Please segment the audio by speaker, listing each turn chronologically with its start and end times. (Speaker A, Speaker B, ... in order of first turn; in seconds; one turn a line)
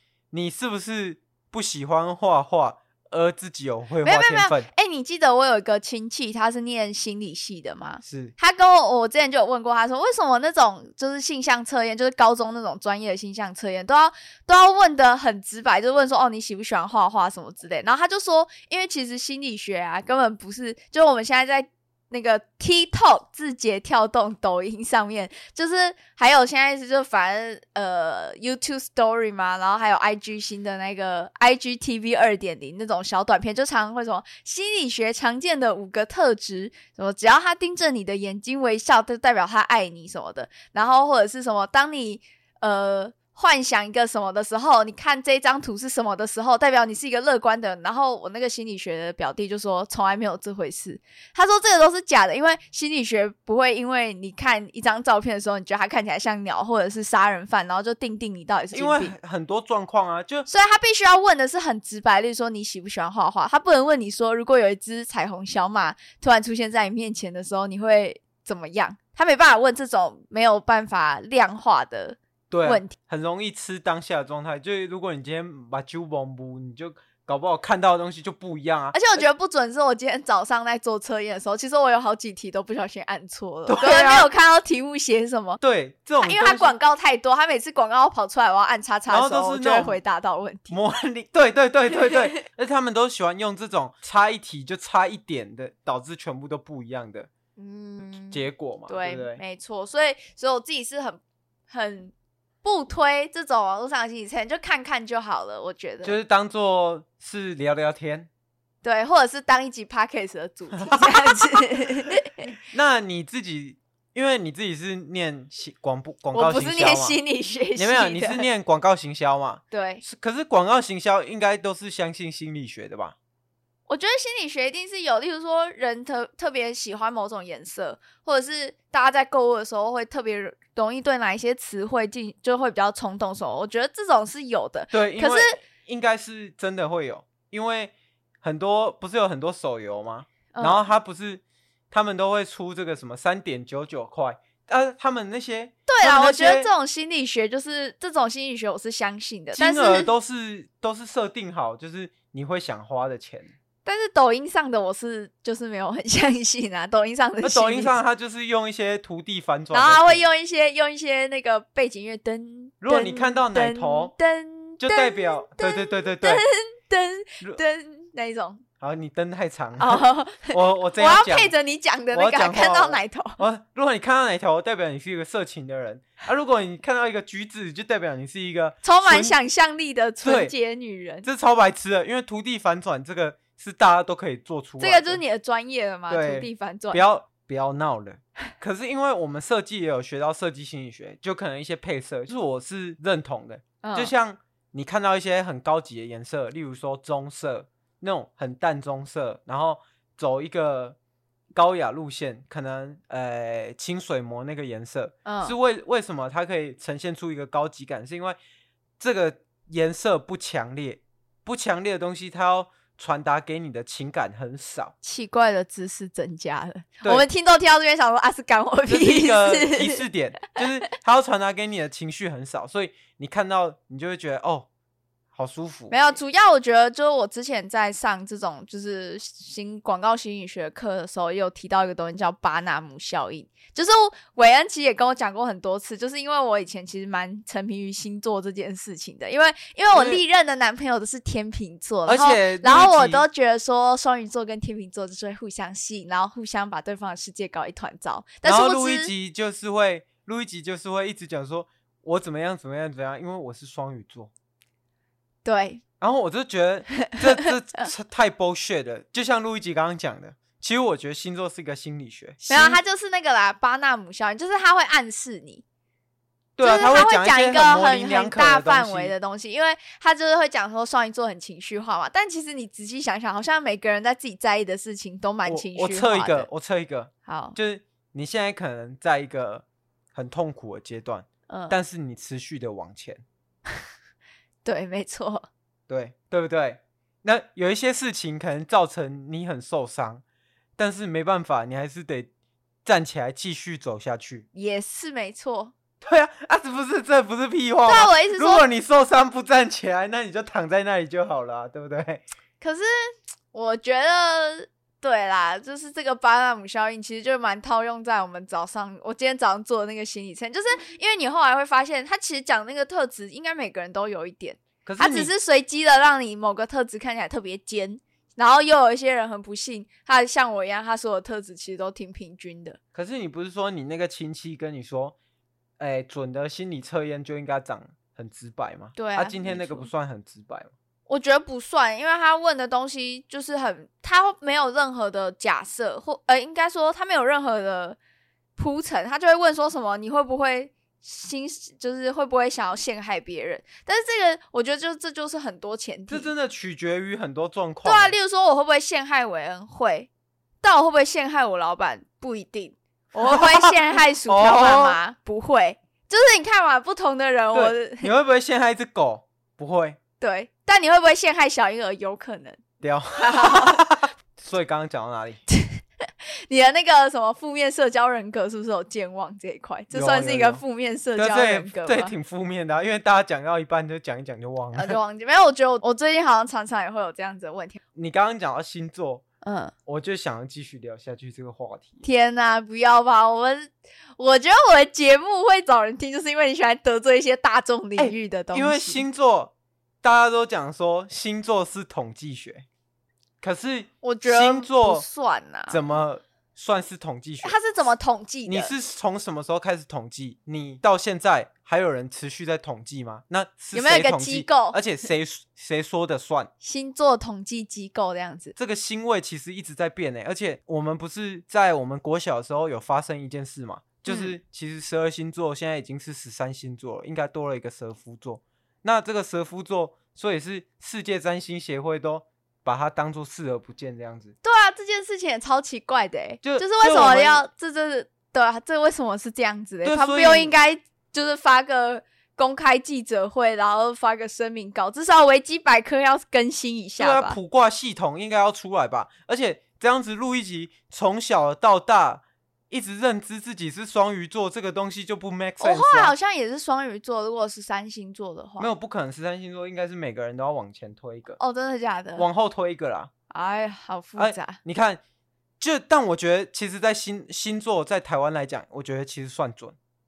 Speaker A: 0.3-4.7
Speaker B: 4.0-59.1
Speaker A: 8.0-8.3
Speaker A: 58.7-60.5
Speaker B: 60.5-72.9
Speaker A: 72.5-79.2
Speaker B: 78.9-85.6
Speaker A: 83.7-84.3
Speaker A: 85.6-86.7
Speaker B: 86.2-90.8
Speaker A: 89.1-90.0
Speaker A: 90.7-97.3
Speaker B: 97.6-106.2
Speaker A: 98.3-99.4
Speaker A: 106.0-108.3
Speaker B: 108.8-112.4
Speaker A: 110.7-111.8
Speaker A: 112.5-117.2
Speaker B: 116.3-118.4
Speaker A: 117.8-123.2
Speaker B: 119.7-120.0
Speaker B: 123.9-135.6
Speaker A: 134.9-146.7
Speaker B: 140.5-140.8
Speaker B: 145.9-150.1
Speaker A: 149.5-153.5
Speaker B: 153.8-157.9
Speaker A: 157.4-160.2
Speaker B: 159.7-168.6
Speaker A: 162.8-164.1
Speaker A: 164.8-166.4
Speaker A: 168.8-171.5
Speaker B: 169.8-173.4
Speaker A: 172.1-179.3
Speaker B: 178.8-181.3
Speaker A: 180.2-180.5
Speaker A: 181.2-185.2
Speaker B: 184.8-187.0
Speaker A: 186.1-201.0
Speaker B: 193.8-194.1
Speaker A: 201.5-208.4
Speaker B: 205.2-205.6
Speaker A: 209.0-214.9
Speaker B: 215.0-220.0
Speaker A: 217.0-217.3
Speaker A: 218.9-224.7
Speaker A: 225.3-225.9
Speaker B: 225.9-249.1
Speaker A: 239.9-240.2
Speaker A: 242.1-243.2
Speaker A: 248.4-254.3
Speaker B: 255.4-255.8
Speaker A: 256.0-262.8
Speaker B: 262.5-265.6
Speaker A: 266.6-269.1
Speaker B: 266.6-276.5
Speaker A: 275.4-283.2
Speaker B: 277.2-277.6
Speaker B: 281.5-281.8
Speaker B: 284.6-285.5
Speaker A: 285.9-290.2
Speaker A: 290.8-292.3
Speaker A: 292.8-294.4
Speaker B: 294.5-295.7
Speaker A: 296.0-302.2
Speaker B: 297.9-298.6
Speaker B: 302.6-322.8
Speaker A: 314.8-315.3
Speaker A: 322.9-325.2
Speaker A: 325.8-330.7
Speaker B: 328.9-329.9
Speaker B: 331.1-338.0
Speaker B: 338.6-346.3
Speaker A: 346.1-348.1
Speaker B: 347.8-350.1
Speaker B: 350.6-358.1
Speaker A: 353.1-355.0
Speaker A: 357.5-360.0
Speaker B: 360.2-362.6
Speaker A: 362.8-365.4
Speaker B: 363.2-363.8
Speaker B: 365.5-372.1
Speaker A: 369.9-370.6
Speaker A: 371.1-375.0
Speaker B: 374.7-377.8
Speaker A: 377.9-379.2
Speaker B: 379.4-379.7
Speaker A: 379.9-382.0
Speaker B: 382.0-389.0
Speaker A: 388.0-392.6
Speaker A: 393.4-395.1
Speaker B: 394.0-395.8
Speaker A: 395.7-397.6
Speaker B: 397.4-398.7
Speaker A: 398.4-406.5
Speaker B: 403.7-404.8
Speaker B: 406.6-408.5
Speaker A: 408.6-424.3
Speaker B: 414.1-414.3
Speaker B: 424.4-437.4
Speaker A: 426.4-427.4
Speaker A: 429.8-430.5
Speaker A: 437.0-446.1
Speaker B: 445.6-448.7
Speaker A: 448.6-451.4
Speaker B: 451.4-452.2
Speaker A: 452.2-453.1
Speaker B: 453.3-454.6
Speaker A: 454.2-455.0
Speaker A: 455.6-459.8